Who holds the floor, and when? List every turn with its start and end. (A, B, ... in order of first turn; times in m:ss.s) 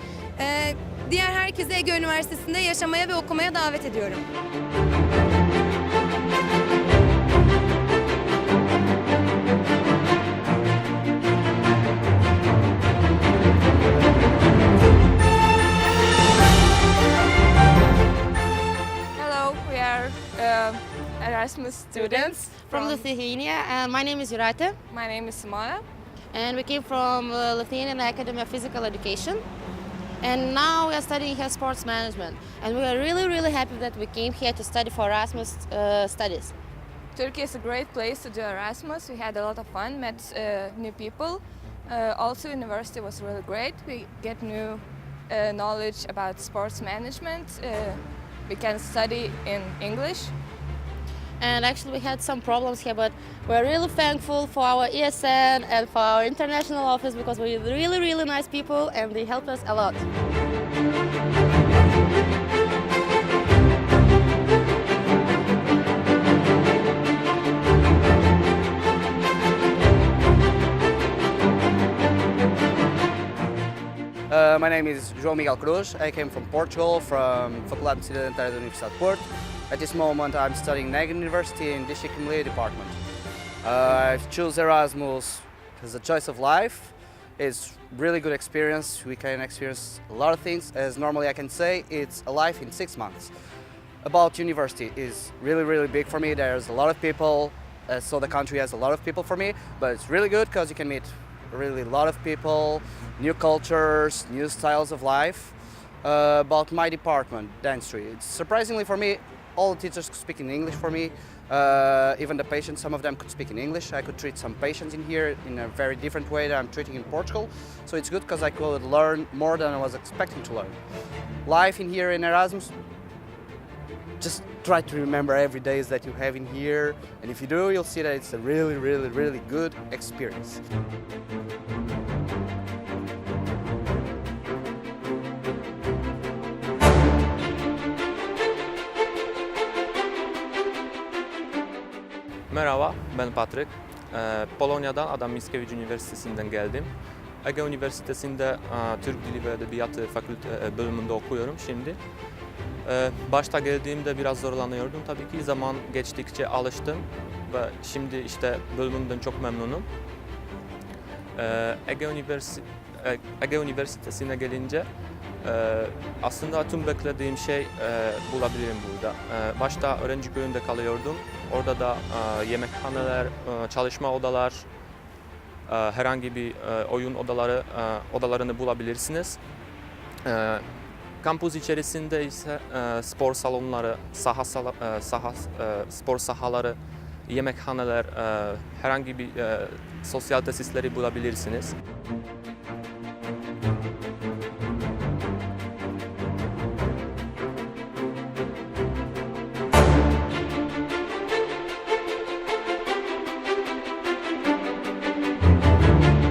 0:00.4-0:04.2 A
0:19.2-0:23.1 B
0:21.9-0:24.8 C
0:24.9-0:25.8 B
0:26.3-0:29.4 C
0:30.2-0:36.5 C
0:37.1-0:50.3 B
0:51.4-1:00.0 C
1:14.3-1:23.0 D
1:23.6-1:33.3 D
1:34.0-2:00.8 D
2:01.4-2:02.7 D
2:04.2-2:10.6 D
2:22.5-2:26.9 E
2:27.4-2:32.0 E
2:32.8-2:39.9 E
2:41.4-2:44.8 E
2:45.4-2:54.6 E
2:55.7-2:59.4 E
3:00.2-3:00.6 E
3:01.2-3:06.8 E
3:07.3-3:11.7 E